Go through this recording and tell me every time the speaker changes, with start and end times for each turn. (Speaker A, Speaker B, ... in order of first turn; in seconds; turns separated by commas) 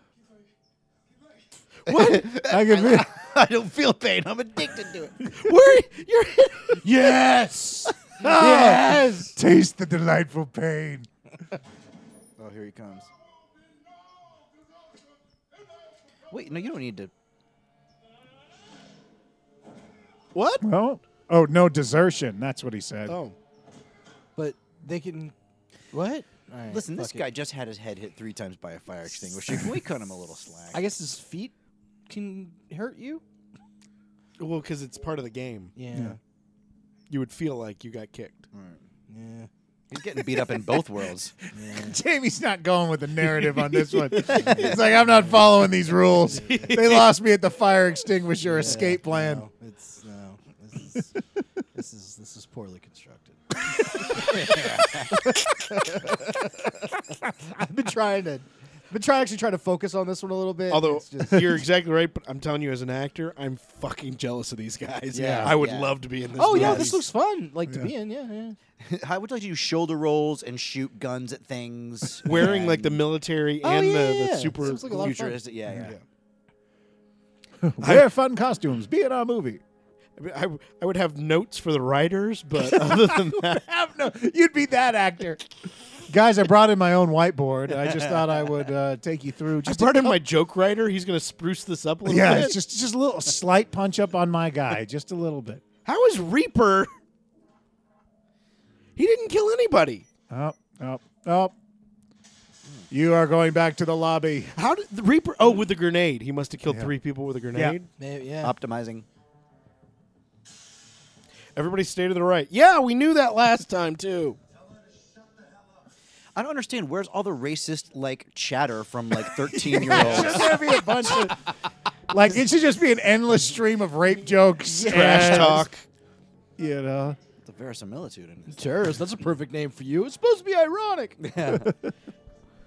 Speaker A: 1.9-2.3, Speaker B: 1.9-5.3, Speaker C: 2.4-3.1, Speaker A: 5.3-6.9, Speaker D: 6.8-9.4, Speaker C: 6.8-7.1, Speaker C: 8.2-11.1, Speaker B: 12.4-13.1, Speaker B: 16.3-17.1, Speaker A: 20.3-20.6, Speaker C: 20.6-23.1, Speaker A: 23.1-23.4, Speaker D: 24.4-25.3, Speaker D: 25.9-27.2, Speaker B: 26.7-30.8, Speaker D: 30.7-31.5, Speaker D: 32.1-33.2, Speaker A: 34.4-35.7, Speaker D: 35.8-36.2, Speaker C: 35.9-36.2, Speaker A: 37.1-38.4, Speaker B: 38.5-38.8, Speaker D: 39.1-39.5, Speaker B: 39.9-41.3, Speaker D: 41.5-42.0, Speaker C: 41.6-49.5, Speaker A: 44.2-44.6, Speaker D: 44.2-45.5, Speaker B: 44.3-44.8, Speaker D: 46.2-46.8, Speaker A: 46.3-47.1, Speaker D: 48.4-51.1, Speaker D: 51.7-61.6, Speaker B: 54.3-55.1, Speaker A: 60.7-67.0, Speaker B: 65.1-66.0, Speaker C: 65.2-65.5, Speaker D: 66.4-68.6, Speaker B: 66.5-67.0, Speaker C: 67.7-67.9, Speaker B: 68.8-73.0, Speaker A: 72.2-75.2, Speaker D: 72.3-72.8, Speaker D: 73.6-75.4, Speaker B: 74.8-75.9, Speaker A: 75.7-76.0, Speaker C: 77.6-79.6, Speaker A: 77.8-78.1, Speaker A: 80.2-83.3, Speaker B: 82.7-83.6, Speaker C: 83.3-85.4, Speaker C: 86.1-90.2, Speaker B: 87.8-88.2, Speaker A: 89.6-92.6, Speaker C: 92.0-95.6, Speaker A: 95.8-96.9, Speaker A: 99.0-100.0, Speaker C: 100.3-101.5, Speaker C: 102.9-104.5, Speaker A: 104.5-107.9, Speaker C: 106.7-106.9, Speaker C: 107.5-107.8, Speaker D: 108.0-108.5, Speaker B: 108.4-109.1, Speaker A: 111.5-114.4, Speaker B: 116.3-120.6, Speaker C: 119.7-121.4, Speaker A: 119.9-120.3, Speaker C: 122.1-125.7, Speaker A: 124.7-125.8, Speaker D: 124.9-125.6, Speaker C: 126.6-127.2, Speaker B: 127.4-128.9, Speaker D: 128.5-131.2, Speaker B: 131.2-131.7, Speaker C: 131.6-131.9